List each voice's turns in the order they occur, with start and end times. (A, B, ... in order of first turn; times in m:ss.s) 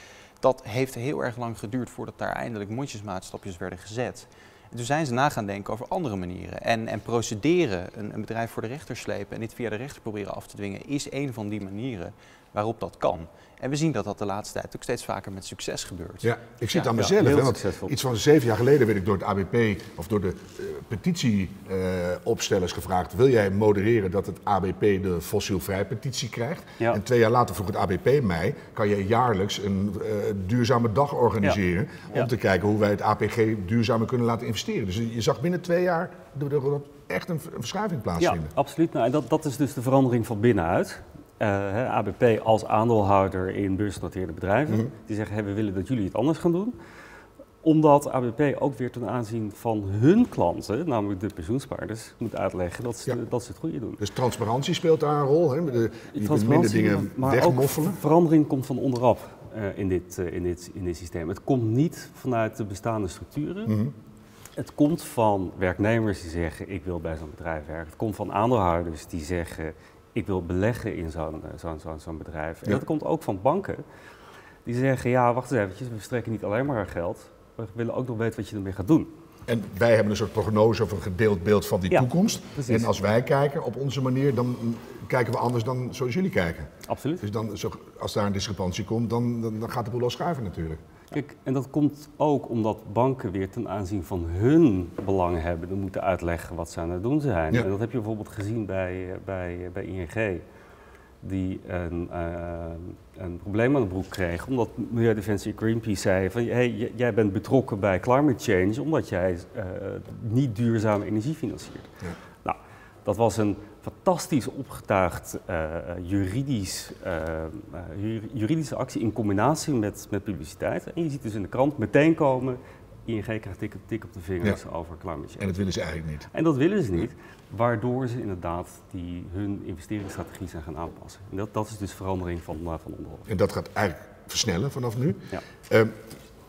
0:00.4-0:16.9 A
0:16.2-0:38.5 B
0:16.9-0:18.0 C
0:38.2-0:46.7 C
0:47.6-0:54.0 C
0:54.0-0:58.0 B
0:56.2-1:03.7 C
1:03.7-1:03.9 B
1:04.6-1:13.8 C
1:14.6-1:19.1 C
1:19.5-1:30.8 B
1:21.9-1:22.9 C
1:26.9-1:27.2 C
1:31.1-1:40.4 C
1:41.2-1:51.9 C
1:52.4-2:05.7 C
2:05.4-2:06.2 B
2:06.3-2:13.3 C
2:13.3-2:16.0 B